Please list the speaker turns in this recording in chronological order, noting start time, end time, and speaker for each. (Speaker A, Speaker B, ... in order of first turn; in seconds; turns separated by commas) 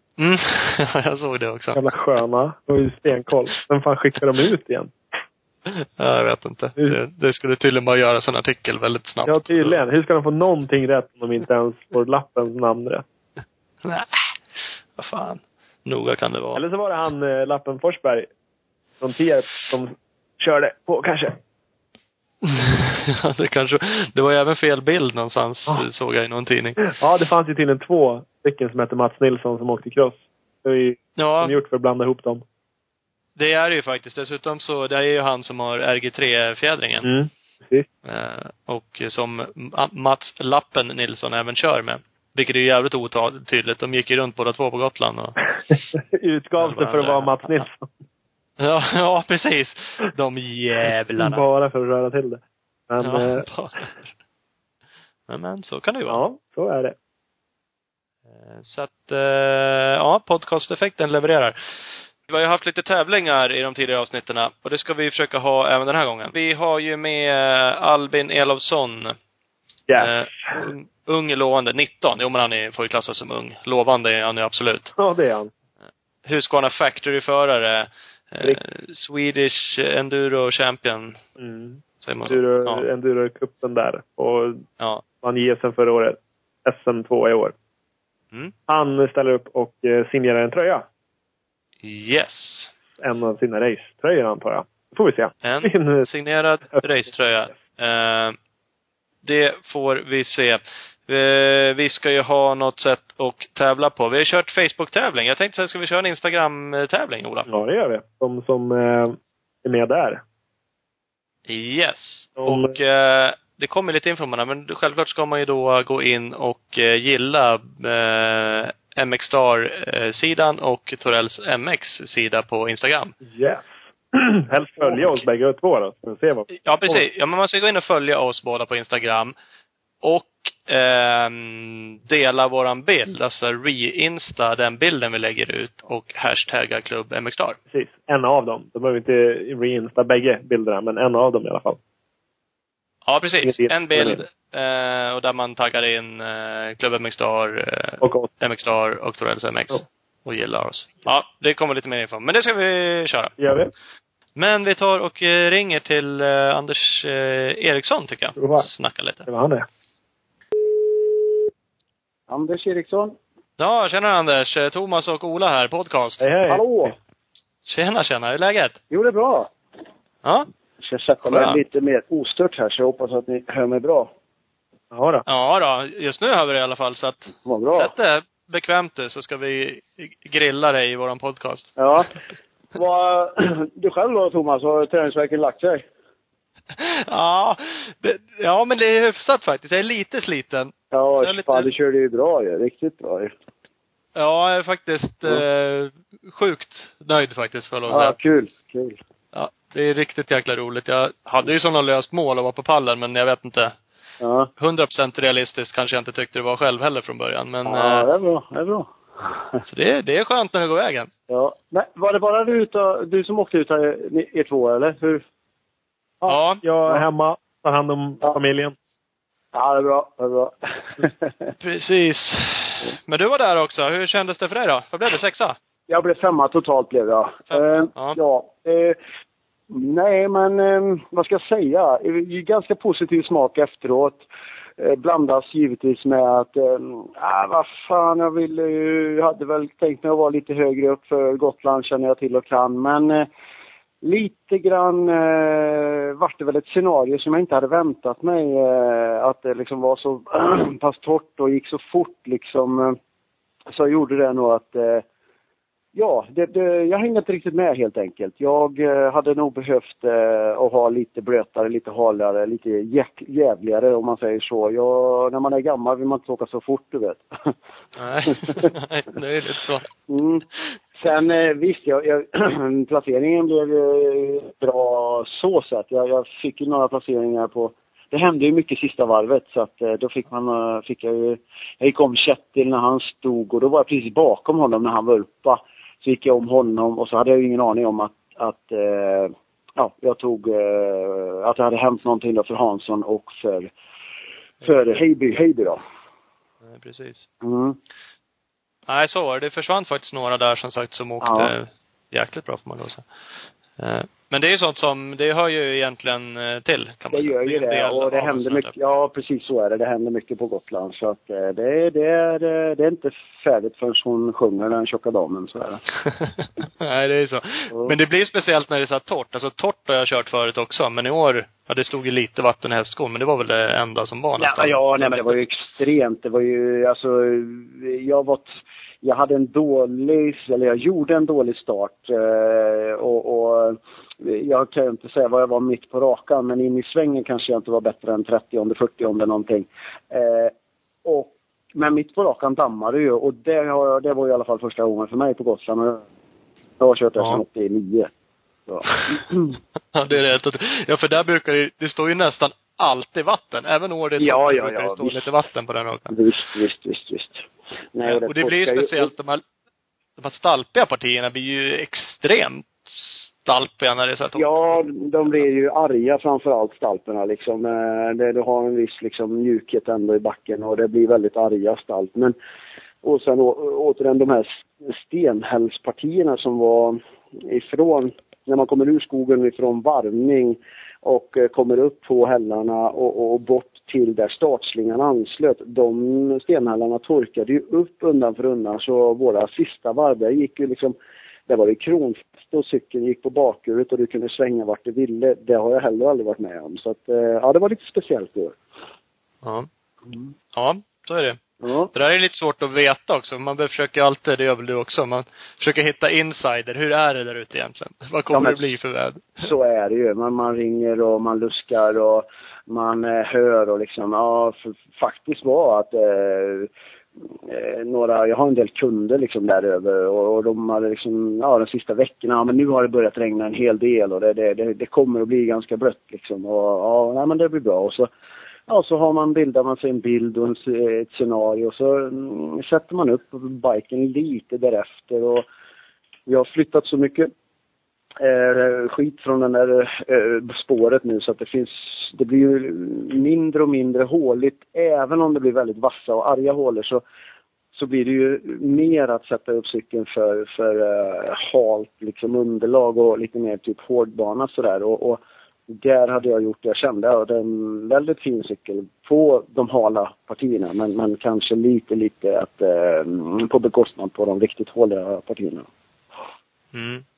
Speaker A: 0.2-1.9, Speaker B: 1.8-4.9, Speaker A: 5.7-9.8, Speaker B: 9.2-13.1, Speaker A: 13.8-14.2, Speaker A: 15.0-16.6, Speaker B: 16.6-18.3, Speaker B: 19.0-21.4, Speaker A: 22.4-26.8, Speaker B: 26.9-32.4, Speaker A: 31.2-31.6, Speaker A: 33.4-37.1, Speaker B: 37.0-37.9, Speaker A: 38.0-45.4, Speaker B: 45.7-47.9, Speaker A: 46.6-47.6, Speaker A: 48.6-51.4, Speaker B: 51.2-53.5, Speaker A: 53.0-54.1, Speaker A: 55.3-56.2, Speaker B: 56.1-57.0, Speaker A: 58.4-61.6, Speaker A: 62.3-69.2, Speaker B: 69.9-70.6, Speaker A: 70.0-74.9, Speaker B: 75.0-75.5, Speaker A: 76.2-81.2, Speaker B: 81.4-84.6, Speaker A: 82.0-82.8, Speaker B: 85.2-87.5, Speaker B: 88.7-90.8, Speaker A: 91.8-92.7, Speaker B: 93.0-96.1, Speaker A: 95.4-98.3, Speaker A: 99.2-107.5, Speaker B: 107.5-110.2, Speaker A: 111.5-123.1, Speaker B: 112.4-112.8, Speaker B: 123.2-127.0, Speaker A: 126.6-129.3, Speaker A: 130.0-137.6, Speaker B: 137.7-141.8, Speaker A: 143.1-153.3, Speaker B: 143.4-144.2, Speaker B: 148.0-148.3, Speaker B: 153.4-153.7, Speaker A: 154.3-159.3, Speaker B: 158.4-158.7, Speaker B: 159.2-159.7, Speaker C: 162.3-163.2, Speaker A: 163.6-166.3, Speaker B: 166.2-166.9, Speaker C: 166.5-166.9, Speaker A: 167.7-168.8, Speaker C: 168.9-169.5, Speaker C: 170.8-174.1, Speaker A: 171.2-171.6, Speaker B: 174.9-175.2, Speaker A: 175.3-181.8, Speaker C: 177.4-177.9, Speaker C: 181.8-182.1, Speaker C: 182.7-185.8, Speaker A: 186.7-191.7, Speaker C: 190.9-193.3, Speaker A: 194.2-198.2, Speaker C: 197.9-199.0, Speaker A: 199.3-203.7, Speaker C: 204.2-204.5, Speaker A: 204.6-208.1, Speaker C: 207.7-209.6, Speaker A: 209.7-211.1, Speaker C: 211.3-215.2, Speaker B: 216.2-218.7, Speaker A: 216.3-216.6, Speaker C: 219.5-221.5, Speaker A: 221.6-225.6, Speaker C: 225.9-228.9, Speaker A: 227.5-228.2, Speaker C: 229.7-234.2, Speaker C: 234.8-243.3, Speaker C: 244.0-253.0, Speaker C: 253.7-255.1, Speaker C: 255.9-267.5, Speaker A: 268.0-269.9, Speaker C: 268.3-268.7, Speaker C: 270.1-270.4, Speaker C: 271.0-293.7, Speaker C: 294.6-295.8, Speaker A: 296.6-297.3, Speaker C: 297.4-297.8, Speaker A: 298.9-303.1, Speaker C: 301.2-301.5, Speaker A: 303.8-308.7, Speaker C: 307.1-315.8, Speaker A: 316.6-325.3, Speaker C: 317.7-317.9, Speaker C: 324.4-328.5, Speaker C: 329.0-340.5, Speaker C: 341.1-346.0, Speaker C: 346.8-348.1, Speaker C: 348.7-349.6, Speaker A: 349.9-356.1, Speaker C: 354.2-355.3, Speaker C: 356.1-359.1, Speaker A: 358.1-359.4, Speaker A: 360.2-364.6, Speaker C: 364.3-372.3, Speaker C: 373.0-390.9, Speaker C: 391.5-398.6, Speaker A: 399.4-399.7, Speaker A: 400.5-401.4, Speaker C: 401.6-401.9, Speaker A: 401.9-409.4, Speaker C: 408.3-408.6, Speaker C: 409.4-416.7, Speaker C: 417.4-428.1, Speaker C: 428.7-435.4, Speaker C: 436.2-437.3, Speaker C: 438.2-447.0, Speaker C: 447.7-465.7, Speaker A: 466.7-467.0